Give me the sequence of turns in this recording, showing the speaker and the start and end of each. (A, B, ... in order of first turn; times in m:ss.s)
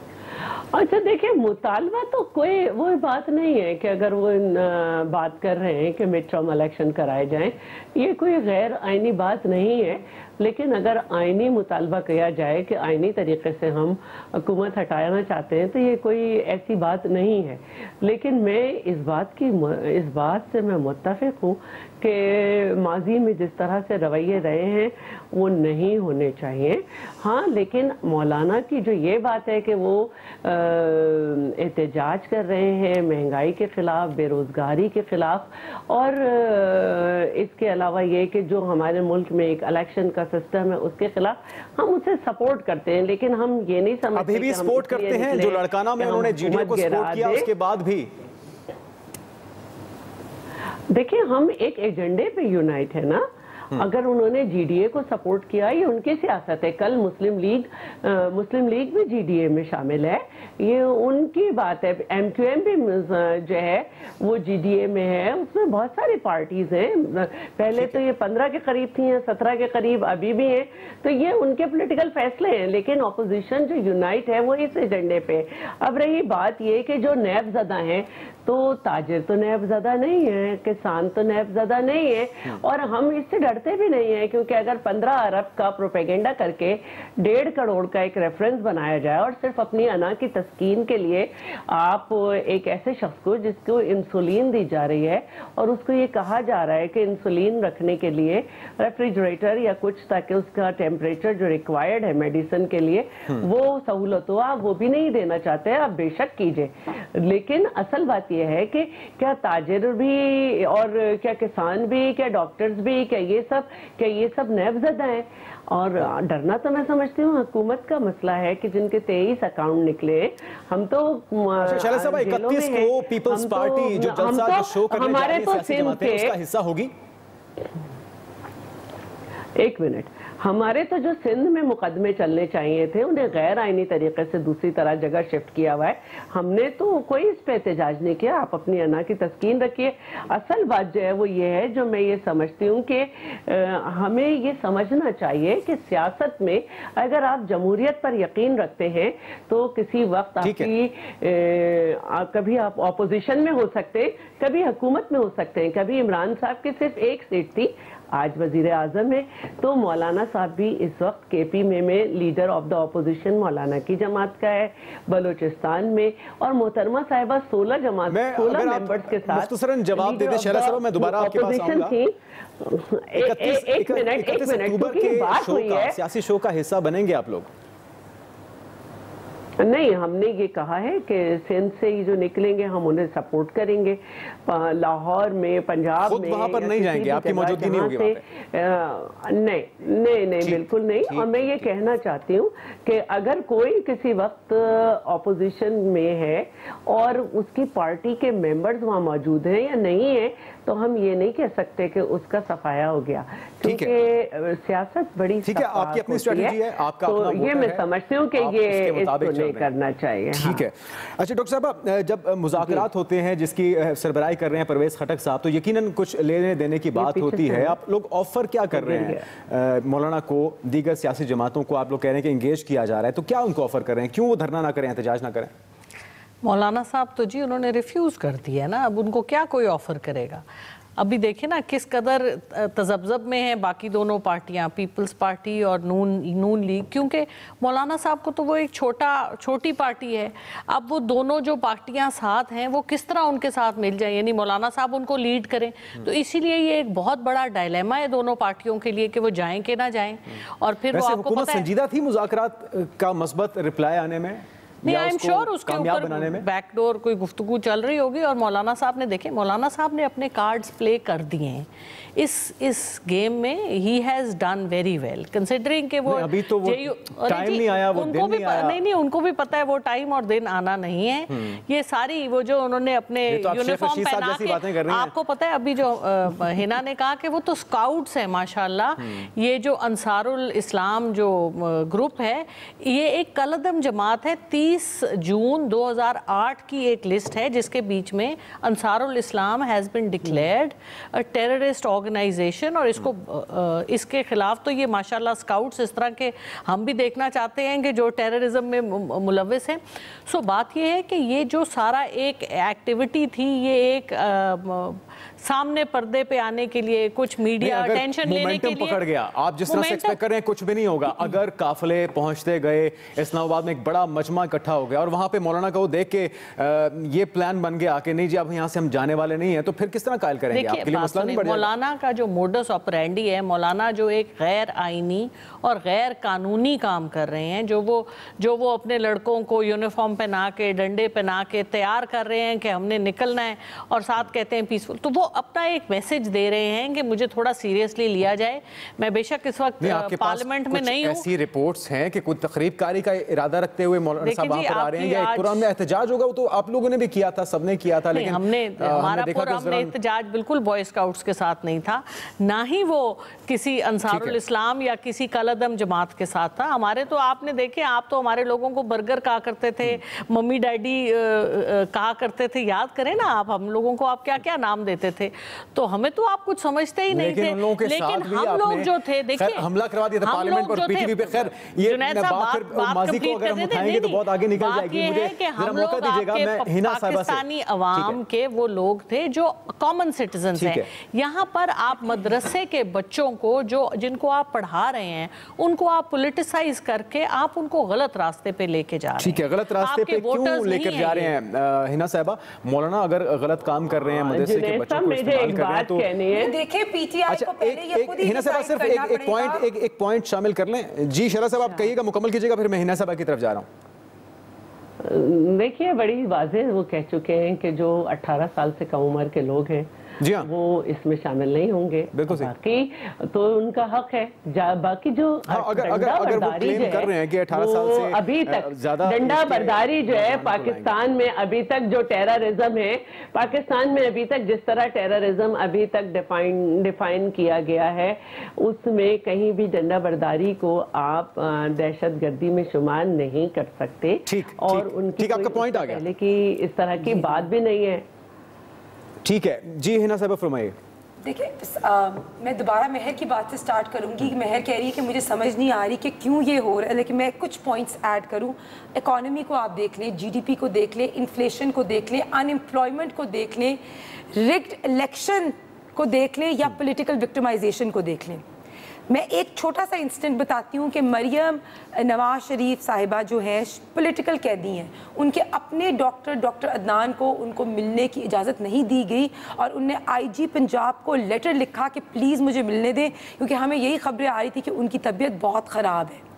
0:00.7-0:47.5 A
0:44.1-0:48.1 B
0:50.9-2:06.4 A
1:07.7-1:08.0 B
2:01.6-2:06.9 B
2:09.6-2:56.0 A
2:30.4-2:30.7 B
2:48.1-2:51.9 B
2:53.2-2:57.5 B
2:59.6-3:30.7 A
3:06.0-3:08.2 B
3:10.4-3:11.7 B
3:23.6-3:23.9 B
3:25.4-3:27.8 B
3:28.4-3:29.7 B
3:30.3-3:45.5 B
3:36.9-3:37.8 A
3:38.7-3:39.2 A
3:46.4-3:50.4 C
3:51.0-4:11.7 C
4:10.9-4:16.5 B
4:14.8-5:09.0 C
4:26.1-4:28.8 B
4:31.3-4:31.6 B
4:33.3-4:35.1 B
5:07.6-5:21.7 B
5:09.7-5:10.2 C
5:20.5-5:41.2 C
5:39.8-5:49.9 B
5:44.2-5:45.6 C
5:48.1-6:09.7 C
5:54.1-5:54.3 B
6:07.1-6:18.2 B
6:10.2-6:31.3 C
6:20.6-6:20.9 B
6:29.2-6:36.1 B
6:34.2-6:36.6 A
6:36.3-6:39.6 D
6:37.3-6:43.7 B
6:45.0-7:18.0 A
6:50.2-6:50.5 B
6:52.1-6:52.5 B
6:55.5-7:00.9 B
7:14.2-7:16.0 B
7:19.2-7:20.7 B
7:21.2-7:33.8 D
7:34.3-7:38.4 D
7:39.1-7:56.2 D